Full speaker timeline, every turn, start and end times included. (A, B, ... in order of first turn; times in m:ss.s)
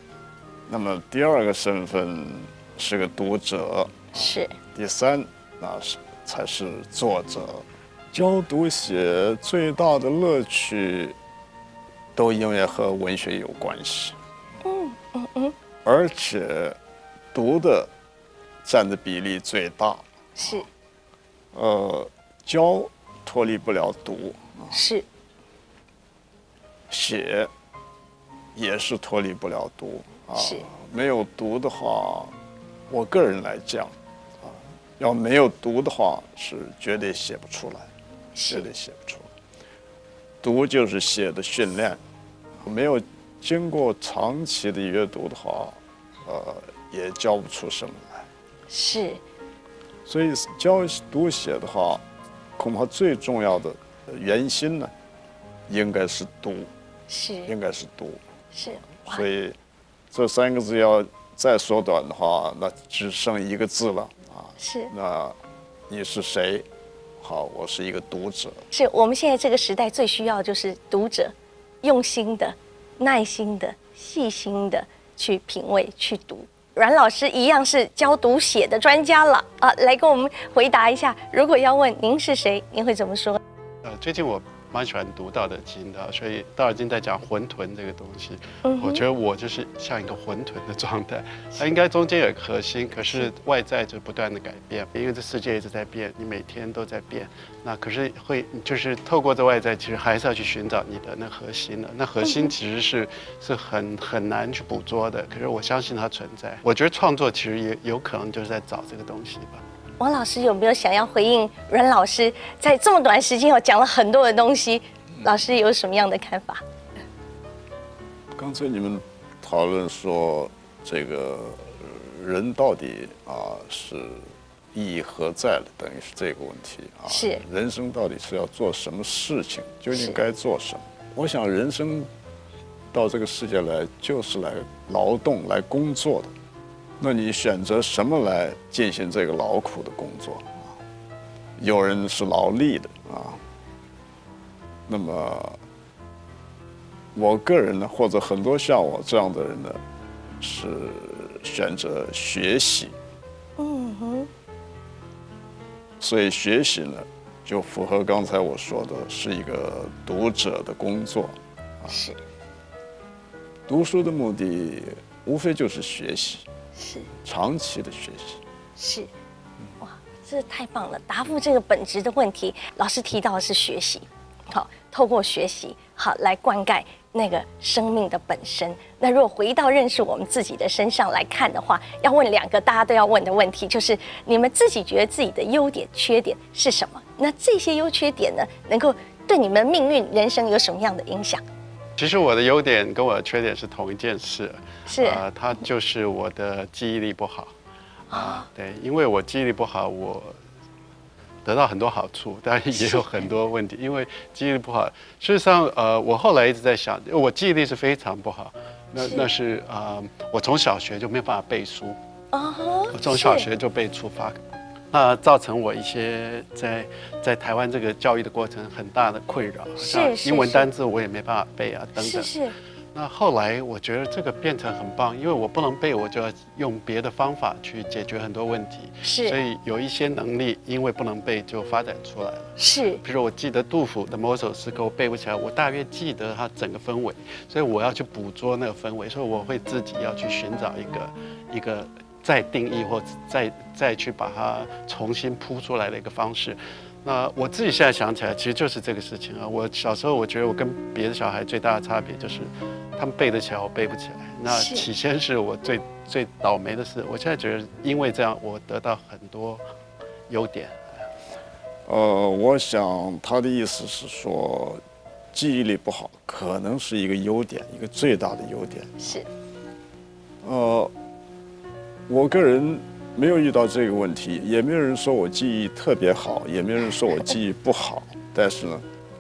0:00.7-0:11.2 A
0:04.1-0:04.6 B
0:12.2-0:14.2 A
0:14.6-0:15.5 B
0:15.8-0:16.8 A
0:17.3-0:17.9 A
0:18.6-0:20.6 A
0:20.4-0:20.7 B
0:21.5-0:24.8 A
0:24.7-0:25.0 B
0:26.9-0:27.5 A
0:28.6-0:32.3 A
0:30.4-0:30.7 B
0:32.9-0:37.9 A
0:38.4-0:38.7 B
0:38.5-0:39.3 A
0:40.4-0:42.0 A
0:42.6-0:48.3 A
0:48.7-0:49.2 B
0:50.1-0:52.0 A
0:52.6-0:54.9 A
0:55.7-0:56.7 A
0:57.1-0:57.5 B
0:57.5-0:58.2 A
0:58.5-0:59.2 B
0:59.0-0:59.6 A
1:00.1-1:05.4 A
1:04.6-1:04.9 B
1:05.9-1:06.7 A
1:07.2-1:08.6 A
1:08.7-1:23.4 B
1:23.8-1:49.6 C
1:28.6-1:29.0 B
1:42.2-1:42.5 B
1:50.0-1:56.6 B
1:58.3-2:12.1 A
2:07.1-2:07.4 B
2:09.9-2:10.2 B
2:12.9-2:16.3 A
2:17.0-2:20.7 A
2:21.6-2:23.4 A
2:24.9-2:25.6 A
2:27.2-2:29.8 A
2:30.4-2:33.0 A
2:33.6-2:34.3 B
2:36.0-2:42.0 A
2:41.9-2:42.2 B
2:43.7-2:46.4 A
2:46.8-2:47.1 B
2:47.2-2:48.4 A
2:48.8-2:49.1 B
2:49.8-3:11.4 B
3:12.0-3:17.5 C
3:14.9-3:15.2 B
3:18.1-3:18.5 B
3:18.1-3:20.4 C
3:21.4-3:32.0 C
3:22.8-3:23.0 B
3:29.0-3:29.3 B
3:32.3-3:33.5 B
3:32.9-3:34.4 C
3:34.9-3:42.4 C
3:39.8-3:40.7 B
3:42.0-3:42.5 B
3:42.9-4:19.6 C
3:49.0-3:49.4 B
3:52.6-3:53.0 B
4:14.5-4:14.8 B
4:20.3-4:21.1 C
4:21.9-4:24.8 A
4:25.3-4:29.2 A
4:29.0-4:29.3 B
4:30.4-4:30.9 A
4:32.1-4:38.8 A